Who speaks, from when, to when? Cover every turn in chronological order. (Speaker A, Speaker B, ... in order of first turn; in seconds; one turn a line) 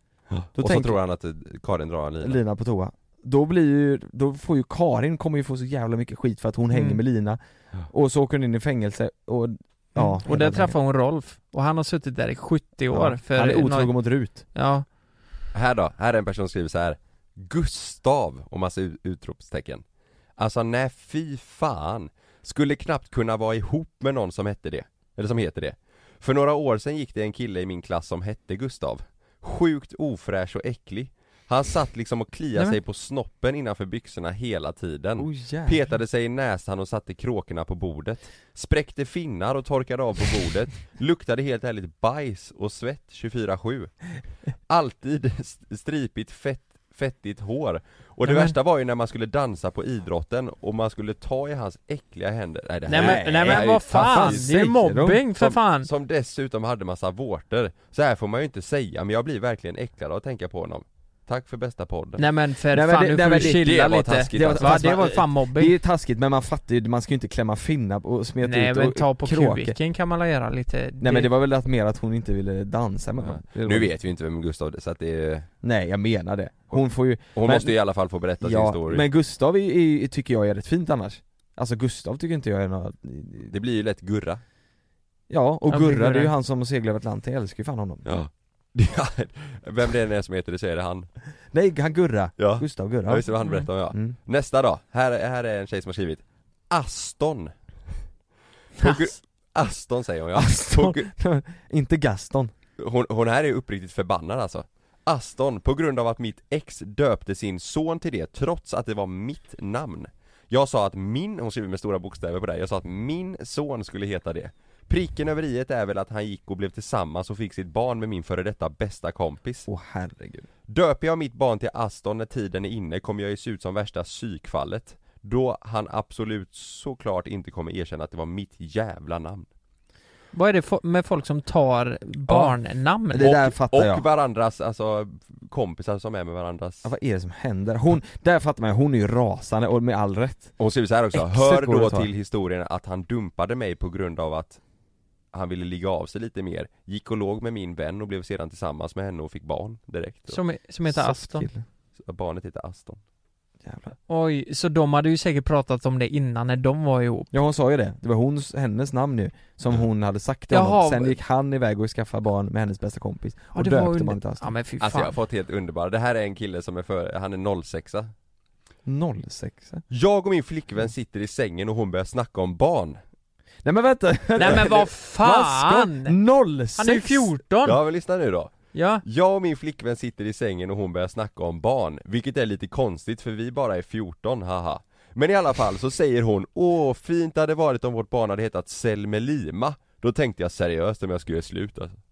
Speaker A: 0.3-2.4
Speaker B: 0.6-1.0
Speaker B: 2.2-7.4
Speaker C: 6.7-7.0
Speaker B: 7.9-10.7
Speaker C: 9.9-14.9
Speaker B: 12.9-14.4
Speaker A: 15.5-19.8
Speaker A: 20.4-54.5
Speaker B: 35.2-35.9
Speaker C: 48.2-48.5
Speaker C: 52.9-55.9
Speaker B: 52.9-55.2
Speaker A: 55.4-62.2
Speaker C: 62.2-65.7
Speaker B: 62.7-69.8
Speaker A: 63.3-65.2
Speaker C: 68.4-71.3
Speaker B: 71.0-73.9
Speaker A: 73.2-75.5
Speaker B: 75.6-77.8
Speaker A: 77.3-79.0
Speaker B: 78.4-83.5
Speaker A: 83.5-84.4
Speaker B: 85.3-88.1
Speaker C: 85.7-86.3
Speaker A: 88.0-91.1
Speaker B: 91.5-93.3
Speaker A: 92.4-97.5
Speaker A: 98.8-101.1
Speaker C: 98.8-99.1
Speaker B: 100.3-102.5
Speaker A: 102.8-119.7
Speaker B: 119.7-120.5
Speaker A: 120.7-129.5
Speaker C: 130.3-133.3
Speaker B: 132.3-132.6
Speaker B: 133.1-134.0
Speaker A: 133.2-136.9
Speaker B: 136.8-140.6
Speaker A: 140.6-144.6
Speaker B: 141.1-142.1
Speaker A: 145.3-150.4
Speaker C: 150.3-151.5
Speaker B: 150.9-151.6
Speaker A: 152.0-153.0
Speaker B: 153.6-153.9
Speaker C: 154.1-157.3
Speaker B: 157.3-164.5
Speaker C: 160.5-161.2
Speaker C: 163.6-165.2
Speaker A: 164.8-168.1
Speaker B: 168.8-169.8
Speaker A: 169.9-173.0
Speaker B: 173.6-177.4
Speaker C: 174.4-176.2
Speaker C: 176.8-177.8
Speaker A: 177.6-192.0
Speaker C: 178.7-179.0